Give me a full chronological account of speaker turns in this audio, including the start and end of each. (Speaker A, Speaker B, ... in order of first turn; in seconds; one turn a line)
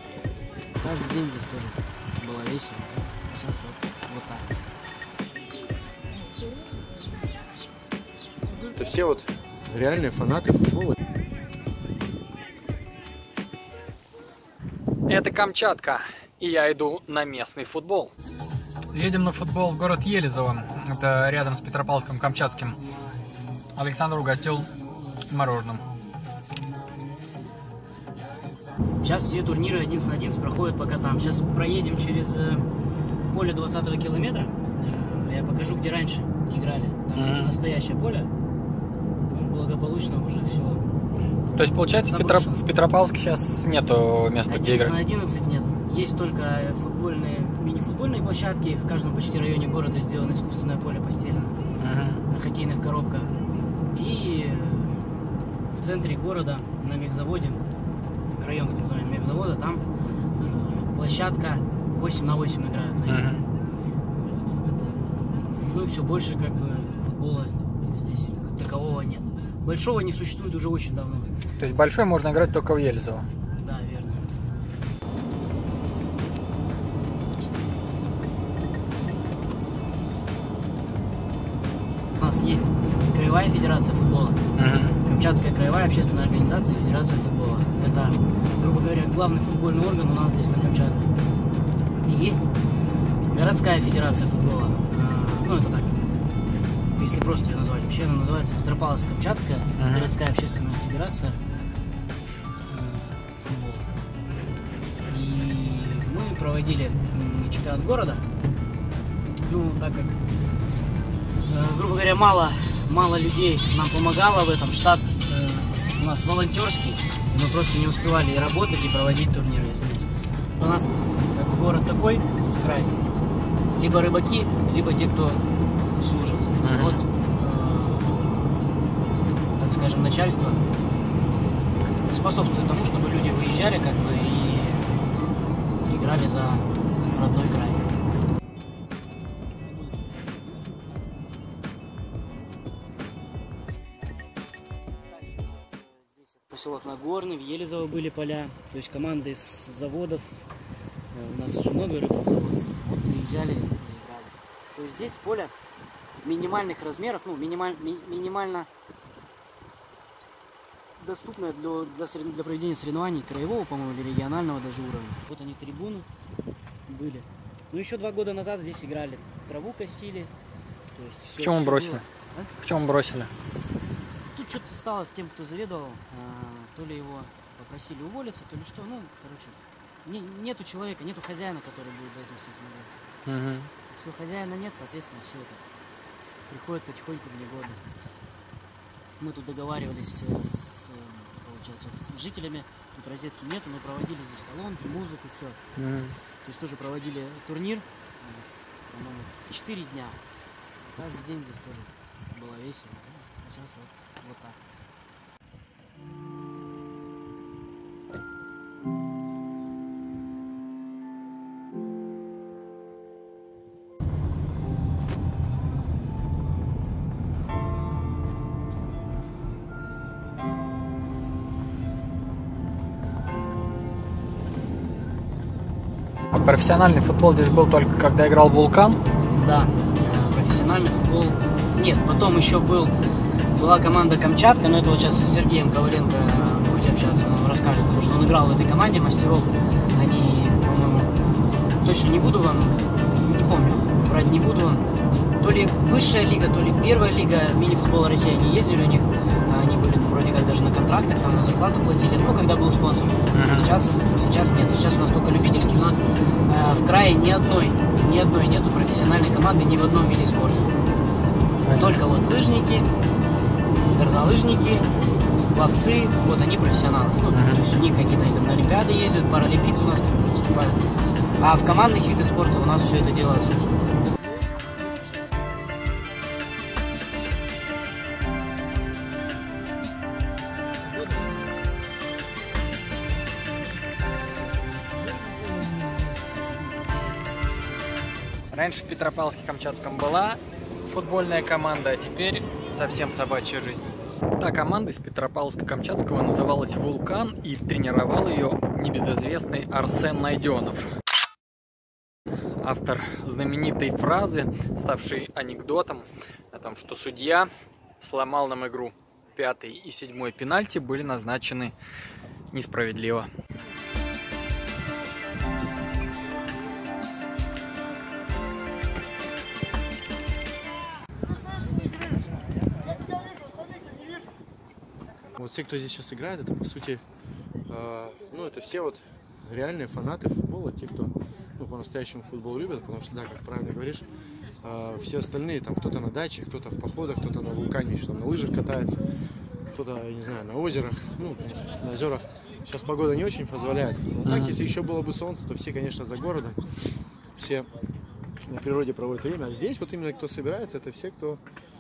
Speaker A: 0.8-4.5
Speaker B: 8.6-11.0
Speaker C: 15.1-18.1
Speaker C: 18.9-22.8
Speaker C: 23.8-24.7
Speaker C: 25.3-25.8
Speaker A: 29.0-32.7
Speaker A: 33.3-38.3
Speaker C: 37.1-37.5
Speaker A: 39.3-40.8
Speaker C: 41.5-44.9
Speaker A: 41.6-42.7
Speaker A: 44.5-51.5
Speaker C: 51.8-52.2
Speaker A: 52.3-53.4
Speaker A: 53.9-55.1
Speaker A: 55.7-57.6
Speaker A: 58.4-59.8
Speaker A: 60.4-63.3
Speaker C: 63.1-63.5
Speaker A: 65.6-71.3
Speaker C: 71.6-73.3
Speaker A: 73.6-74.2
Speaker A: 82.1-84.4
Speaker C: 84.5-85.0
Speaker A: 85.0-91.1
Speaker A: 92.0-92.5
Speaker A: 93.3-96.0
Speaker A: 96.9-101.4
Speaker C: 99.8-100.1
Speaker A: 102.7-103.9
Speaker A: 105.0-108.3
Speaker A: 109.5-110.2
Speaker A: 111.5-123.0
Speaker A: 123.8-125.4
Speaker A: 126.0-128.4
Speaker C: 126.6-127.0
Speaker A: 129.3-130.6
Speaker A: 132.1-134.9
Speaker A: 135.8-138.0
Speaker A: 139.6-141.3
Speaker A: 144.9-150.5
Speaker A: 151.1-155.5
Speaker A: 156.2-158.7
Speaker A: 161.0-166.1
Speaker A: 166.9-170.3
Speaker A: 170.9-172.5
Speaker C: 171.4-172.0
Speaker C: 172.6-173.3
Speaker A: 174.3-182.9
Speaker C: 183.2-183.7
Speaker A: 183.9-185.6
Speaker A: 186.5-188.2
Speaker A: 189.2-195.6
Speaker C: 195.8-196.2
Speaker A: 196.4-200.2
Speaker A: 200.8-204.6
Speaker C: 226.3-229.0
Speaker A: 229.3-233.0
Speaker A: 233.5-241.1
Speaker A: 241.8-244.9
Speaker A: 245.4-260.8
Speaker C: 253.3-253.7
Speaker C: 261.6-261.9
Speaker A: 261.7-262.9
Speaker A: 263.7-264.9
Speaker A: 265.5-270.8
Speaker C: 267.3-267.6
Speaker A: 271.4-274.0
Speaker A: 274.6-275.3
Speaker A: 284.9-288.5
Speaker C: 288.5-293.8
Speaker C: 294.4-300.9
Speaker C: 302.6-307.5
Speaker C: 308.0-311.8
Speaker C: 312.5-313.3
Speaker B: 325.3-327.0
Speaker B: 327.7-334.1
Speaker B: 334.6-339.0
Speaker B: 339.7-346.6
Speaker C: 344.2-344.6
Speaker B: 347.4-347.7
Speaker B: 348.5-351.4